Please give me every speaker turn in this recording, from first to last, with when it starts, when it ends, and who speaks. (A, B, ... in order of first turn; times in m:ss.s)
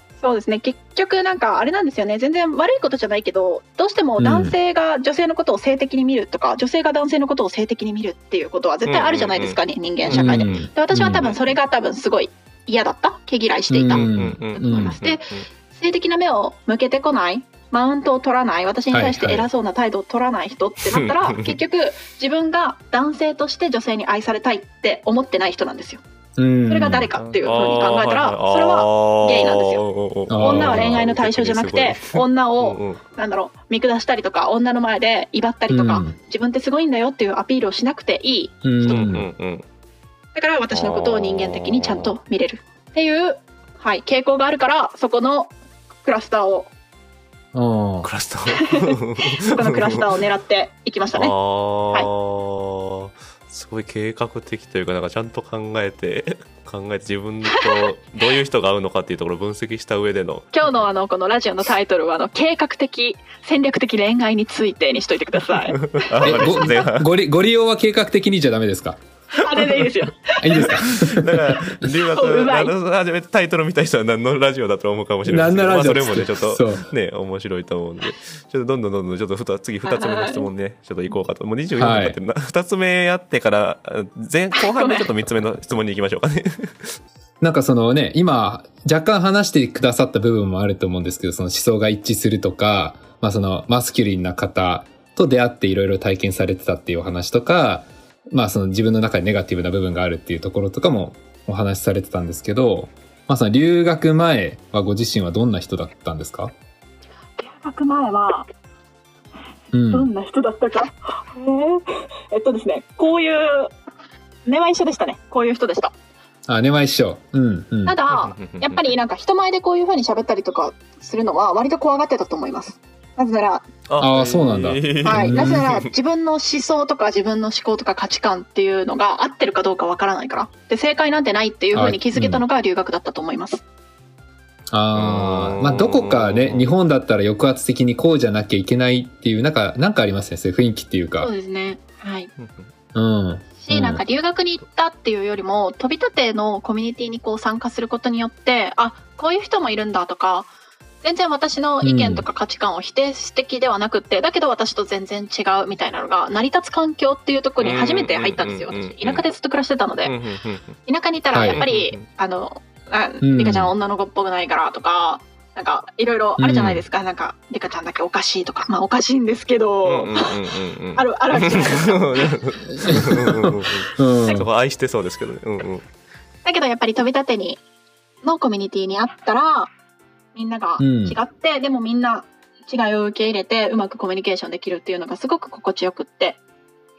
0:00.2-0:26.0 A
0:04.2-0:04.5 B
0:08.9-0:11.5 C
0:10.1-0:11.2 B
0:13.7-0:14.9 B
0:13.9-0:15.4 C
0:18.9-0:19.5 B
0:20.9-0:21.6 C
0:26.4-0:27.1 B
0:26.7-0:29.8 A
0:27.2-0:33.0 C
0:30.3-0:31.1 B
0:30.4-0:39.1 A
0:35.7-0:36.2 B
0:38.6-0:39.3 B
0:38.8-0:39.6 C
0:40.4-0:46.7 A
0:40.7-0:42.1 C
0:47.5-0:48.1 B
0:48.0-0:50.0 C
0:48.5-0:51.3 A
0:51.1-1:00.5 C
1:00.5-1:06.7 A
1:05.7-1:07.1 C
1:06.2-1:09.0 B
1:09.4-1:10.8 A
1:10.4-1:11.9 B
1:10.6-1:27.0 C
1:12.1-1:12.7 A
1:15.3-1:16.9 B
1:19.8-1:20.5 A
1:21.8-1:22.2 B
1:24.6-1:25.1 A
1:27.4-1:46.5 B
1:47.4-1:48.5 A
1:49.7-1:50.1 B
1:49.9-1:53.7 A
1:54.5-1:55.9 A
1:56.5-1:58.0 B
1:57.8-2:03.7 A
1:58.1-1:58.9 C
2:03.9-2:05.9 C
2:04.0-2:05.6 B
2:05.0-2:13.6 A
2:11.7-2:12.4 B
2:14.7-2:21.3 B
2:14.9-2:16.7 C
2:21.2-2:22.3 A
2:22.9-2:24.0 B
2:23.6-2:30.5 A
2:31.0-2:40.1 A
2:31.8-2:32.2 B
2:37.6-2:39.2 C
2:40.0-2:40.8 C
2:40.9-2:50.4 A
2:41.3-2:41.6 B
2:41.5-2:42.0 C
2:43.2-2:43.7 B
2:46.4-2:46.8 B
2:49.9-2:55.9 C
2:51.0-2:52.4 A
2:52.8-2:54.5 B
2:56.4-2:57.6 A
2:58.2-2:59.7 A
3:00.4-3:06.4 A
3:00.8-3:01.2 B